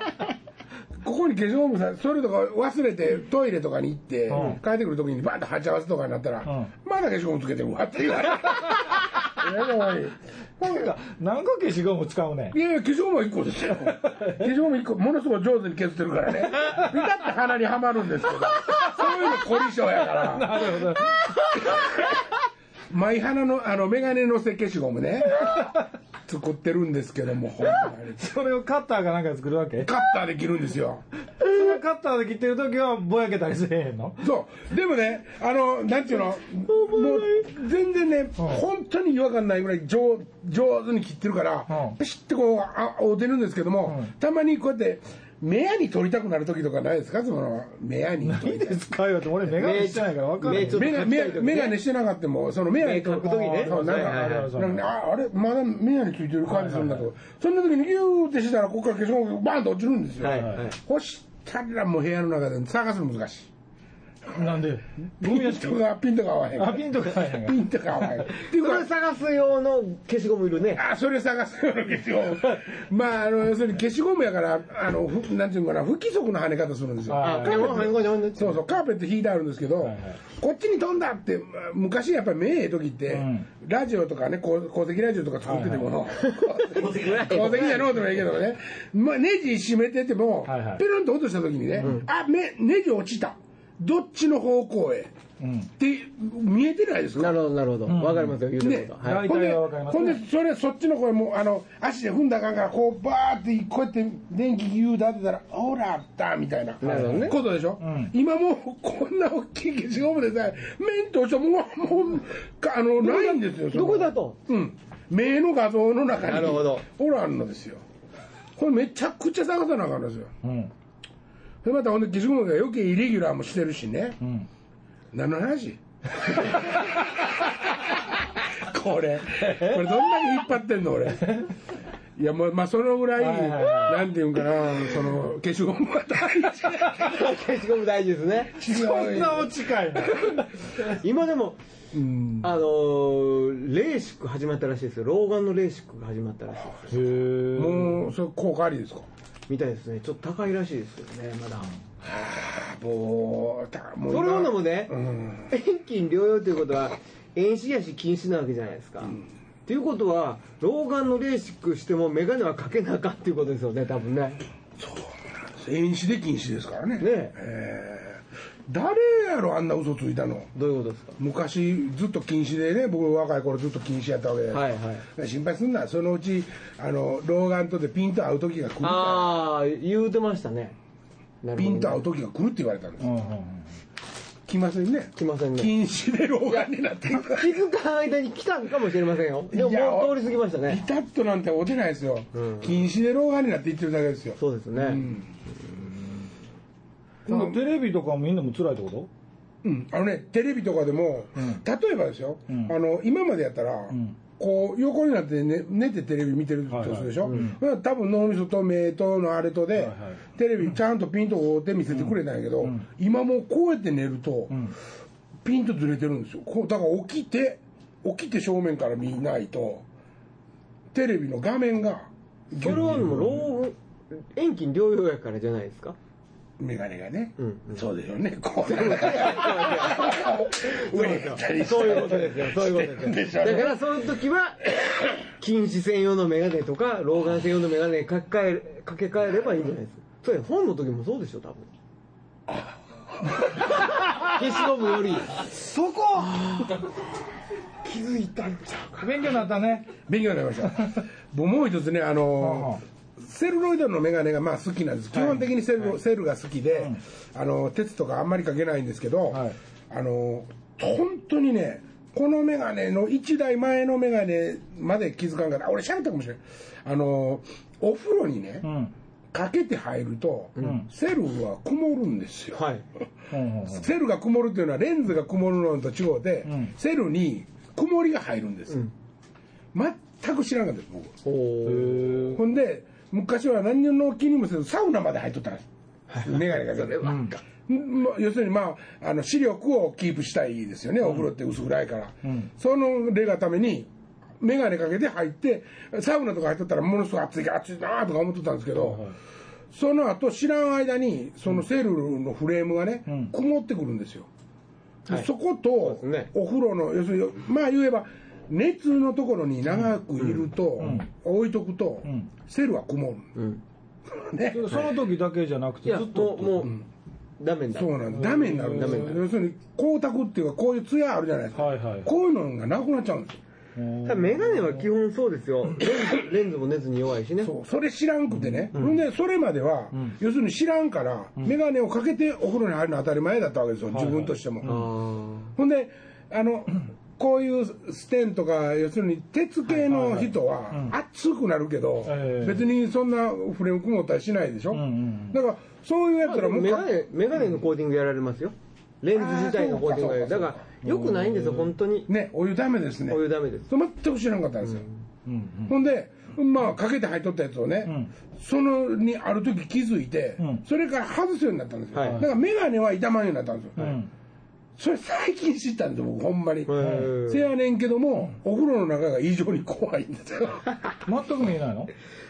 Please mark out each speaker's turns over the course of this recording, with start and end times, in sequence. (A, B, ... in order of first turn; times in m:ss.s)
0:01.0-0:10.8 A
0:04.3-0:04.6 B
0:10.6-0:12.6 B
0:12.5-0:21.0 A
0:14.1-0:14.3 B
0:18.8-0:19.2 B
0:20.0-0:21.8 B
0:21.5-0:22.2 A
0:22.9-0:25.7 A
0:25.4-0:25.7 B
0:26.2-0:28.3 A
0:28.2-0:29.9 B
0:29.8-0:31.0 A
0:31.4-0:34.2 B
0:34.2-0:48.8 A
0:36.7-0:37.5 C
0:41.7-0:42.0 B
0:43.9-0:44.1 B
0:48.2-0:50.9 B
0:49.5-0:51.8 C
0:50.5-1:03.5 A
0:52.8-0:54.5 C
0:53.2-0:54.9 B
0:56.4-0:57.0 B
1:00.2-1:00.8 C
1:00.3-1:00.6 B
1:04.3-1:05.7 B
1:05.2-1:08.9 A
1:06.6-1:07.6 B
1:08.3-1:10.8 C
1:10.7-1:35.1 A
1:17.1-1:17.9 B
1:17.2-1:18.6 C
1:19.8-1:20.2 B
1:23.1-1:23.5 B
1:25.4-1:26.0 B
1:26.2-1:28.2 C
1:30.4-1:30.8 B
1:35.4-1:35.7 B
1:35.8-1:37.4 A
1:37.2-1:39.3 C
1:37.9-1:38.4 B
1:38.6-1:57.8 A
1:39.0-1:40.2 B
1:46.8-1:47.4 C
1:46.9-1:48.1 B
1:53.0-1:54.4 C
1:56.3-1:56.8 C
1:58.6-2:00.3 A
2:00.4-2:00.7 B
2:01.6-2:04.2 A
2:04.2-2:04.5 B
2:05.1-2:11.4 A
2:09.4-2:10.0 B
2:12.2-2:17.2 A
2:13.2-2:14.1 B
2:17.0-2:18.6 C
2:18.5-2:20.1 A
2:18.6-2:20.7 B
2:20.8-2:21.6 C
2:21.9-2:22.5 A
2:22.4-2:27.2 C
2:26.9-2:28.0 B
2:27.5-2:29.1 A
2:29.5-2:31.7 C
2:32.0-2:35.5 A
2:34.1-2:34.9 C
2:35.5-2:44.4 C
2:44.8-2:50.5 A
2:47.0-2:47.4 C
2:50.5-2:51.2 C
2:51.2-2:59.4 A
2:54.5-2:55.0 C
2:58.8-3:00.8 C
3:01.4-3:02.0 C
3:01.6-3:03.1 A
3:03.0-3:03.7 B
3:04.5-3:07.6 A
3:05.2-3:05.7 C
3:06.5-3:10.8 C
3:09.5-3:15.3 A
3:12.3-3:12.7 C
3:14.4-3:15.1 C
3:17.2-3:19.1 B
3:17.3-3:17.6 A
3:19.6-3:34.7 A
3:22.5-3:22.7 B
3:26.7-3:27.6 B
3:27.2-3:27.5 C
3:29.8-3:30.2 B
3:32.0-3:32.8 B
3:35.4-3:39.8 A
3:40.9-3:43.4 A
3:42.5-3:46.0 C
3:42.6-3:43.3 B
3:46.6-3:54.0 A
3:47.4-3:47.8 C
3:48.6-4:01.7 C
4:03.7-4:05.4 C
4:05.5-4:06.8 B
4:06.4-4:06.8 C
4:07.8-4:09.3 C
4:09.0-4:09.9 B
4:10.0-4:28.7 A
4:12.4-4:12.8 B
4:19.3-4:19.6 B
4:28.6-4:28.9 B
4:29.3-4:32.6 A
4:30.6-4:30.8 C
4:30.6-4:30.9 B
4:32.5-4:32.8 C
4:33.3-4:33.9 B
4:33.6-4:38.8 A
4:36.4-4:36.7 B
4:39.7-4:41.2 A
4:41.2-4:42.2 C
4:41.6-4:42.4 B
4:42.3-4:59.1 A
4:46.1-4:47.4 C
4:47.0-4:47.3 B
4:52.2-4:52.5 B
4:58.8-4:59.2 B
4:59.7-5:04.3 A
5:03.1-5:03.3 B
5:05.1-5:13.3 A
5:05.8-5:06.3 C
5:10.2-5:10.4 C
5:10.8-5:11.1 B
5:12.0-5:12.3 B
5:13.3-5:13.6 C
5:14.1-5:15.0 A
5:14.5-5:16.7 B
5:15.8-5:16.7 C
5:17.4-5:19.2 C
5:17.7-5:23.4 A
5:18.1-5:19.2 B
5:21.6-5:22.1 B
5:23.8-5:24.9 B
5:24.0-5:27.5 C
5:27.4-5:34.7 A
5:28.3-5:28.8 B
5:33.9-5:34.9 B
5:34.6-5:35.5 C
5:35.6-5:47.0 A
5:39.7-5:40.9 B
5:42.0-5:42.7 B
5:44.7-5:45.4 B
5:46.2-5:52.1 C
5:49.1-5:50.6 A
5:50.8-5:51.7 B
5:52.1-5:54.8 A
5:53.1-5:53.7 C
5:54.6-5:54.9 C
5:55.2-5:55.7 B
5:55.7-6:04.0 A
5:57.8-5:58.1 B
6:01.9-6:02.2 C
6:02.0-6:02.3 B
6:03.8-6:04.1 B
6:04.8-6:10.7 A
6:06.7-6:07.5 C
6:06.8-6:07.1 B
6:11.0-6:11.9 B